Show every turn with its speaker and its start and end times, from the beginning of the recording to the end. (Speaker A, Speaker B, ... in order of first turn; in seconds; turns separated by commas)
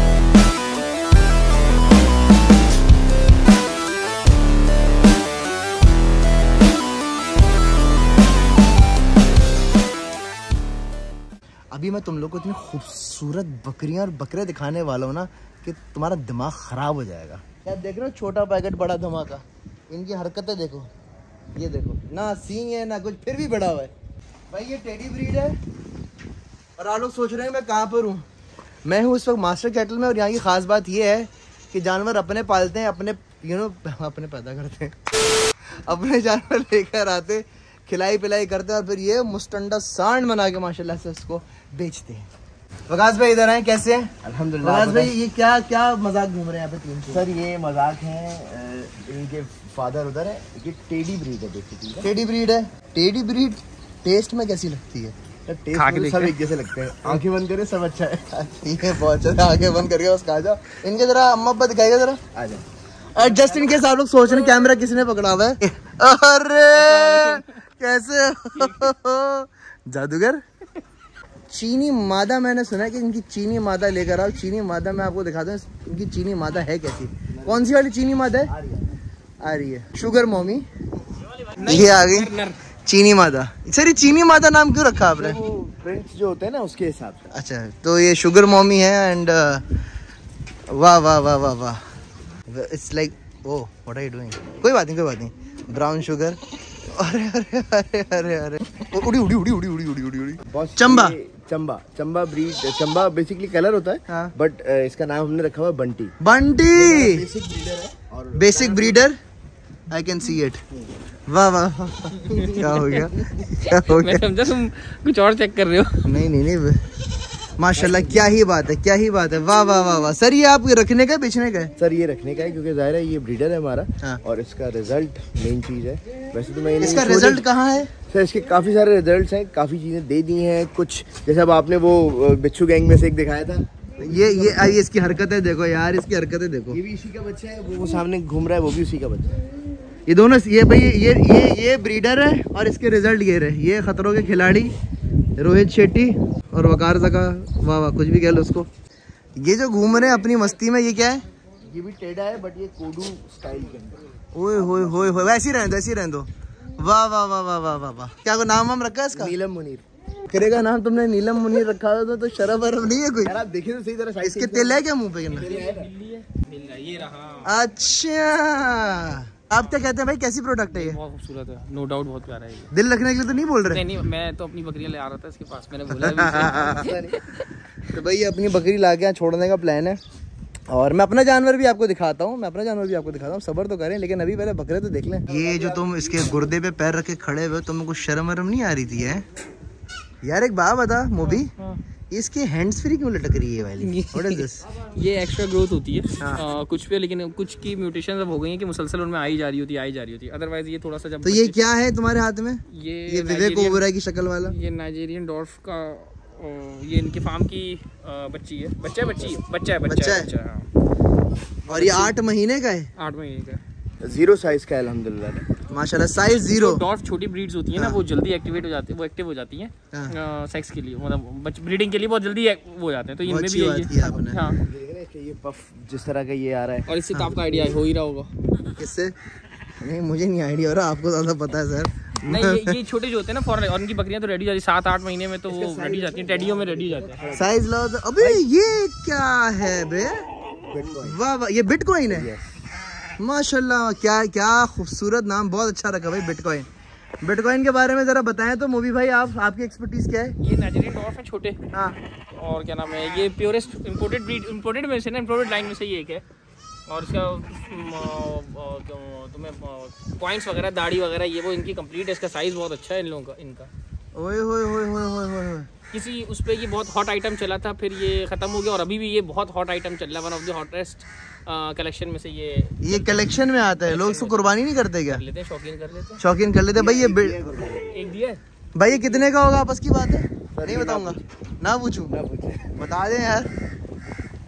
Speaker A: 11.7-20.9, Speaker A: 21.6-23.9, Speaker A: 24.5-25.6, Speaker A: 26.8-28.2, Speaker A: 28.8-35.0, Speaker A: 35.7-42.3, Speaker A: 42.9-44.1, Speaker B: 44.2-45.1, Speaker A: 44.6-47.3, Speaker B: 47.1-52.0, Speaker A: 52.0-55.1, Speaker B: 55.5-58.2, Speaker C: 55.7-56.3, Speaker A: 58.3-62.2, Speaker B: 62.3-62.6, Speaker A: 63.1-70.4, Speaker C: 64.3-64.8, Speaker C: 66.7-67.6, Speaker C: 68.5-68.9, Speaker A: 71.5-78.5, Speaker B: 78.5-78.9, Speaker A: 79.4-80.7, Speaker C: 81.5-82.6, Speaker A: 81.6-82.3, Speaker A: 82.8-85.4, Speaker B: 85.2-87.3, Speaker A: 87.3-89.6, Speaker A: 90.7-91.8, Speaker A: 92.5-101.2, Speaker B: 100.5-106.1, Speaker A: 104.1-104.3, Speaker A: 106.2-107.2, Speaker B: 106.7-109.0, Speaker A: 108.3-109.2, Speaker A: 109.9-110.6, Speaker A: 111.3-114.2, Speaker C: 112.3-116.1, Speaker A: 116.0-116.8, Speaker A: 117.6-121.7, Speaker B: 117.7-118.4, Speaker B: 121.8-127.4, Speaker A: 126.8-127.9, Speaker B: 128.1-134.7, Speaker A: 134.0-136.8, Speaker B: 136.7-139.4, Speaker A: 140.1-144.7, Speaker A: 145.4-148.7, Speaker A: 149.4-151.2, Speaker B: 151.6-154.1, Speaker A: 154.3-156.3, Speaker A: 156.8-159.3, Speaker B: 159.1-159.8, Speaker A: 160.3-163.4, Speaker B: 163.2-165.9, Speaker A: 164.2-165.5, Speaker C: 165.3-167.5, Speaker A: 167.4-171.0, Speaker C: 170.7-172.7, Speaker A: 172.7-173.8, Speaker C: 173.6-177.5, Speaker A: 175.9-176.7, Speaker B: 176.3-177.2, Speaker A: 177.9-180.0, Speaker A: 180.7-189.2, Speaker B: 185.3-186.5, Speaker A: 190.2-191.5, Speaker C: 191.2-191.8, Speaker A: 192.1-194.7, Speaker C: 193.8-201.6, Speaker A: 196.2-196.4, Speaker A: 201.2-204.6, Speaker C: 202.7-203.8, Speaker C: 204.4-210.7, Speaker A: 209.9-210.3, Speaker C: 211.7-212.2, Speaker A: 211.7-212.9, Speaker C: 212.9-213.6, Speaker B: 214.0-215.5, Speaker A: 215.7-216.8, Speaker C: 216.3-224.6, Speaker A: 223.2-224.4, Speaker B: 224.1-227.8, Speaker C: 226.9-228.3, Speaker A: 228.8-229.1, Speaker A: 229.8-232.7, Speaker C: 232.2-237.2, Speaker B: 235.5-237.6, Speaker A: 237.3-240.2, Speaker B: 240.7-241.2, Speaker A: 241.0-242.3, Speaker B: 242.1-242.5, Speaker A: 243.2-246.7, Speaker A: 247.2-250.3, Speaker C: 250.4-251.6, Speaker C: 252.3-256.2, Speaker C: 256.9-263.7, Speaker A: 264.1-265.7, Speaker C: 265.9-273.2, Speaker A: 272.8-275.2, Speaker C: 273.8-276.2, Speaker A: 276.2-277.4, Speaker B: 276.7-277.9, Speaker C: 277.9-278.4, Speaker A: 278.7-282.1, Speaker B: 280.5-281.2, Speaker B: 282.1-282.8, Speaker A: 282.7-283.5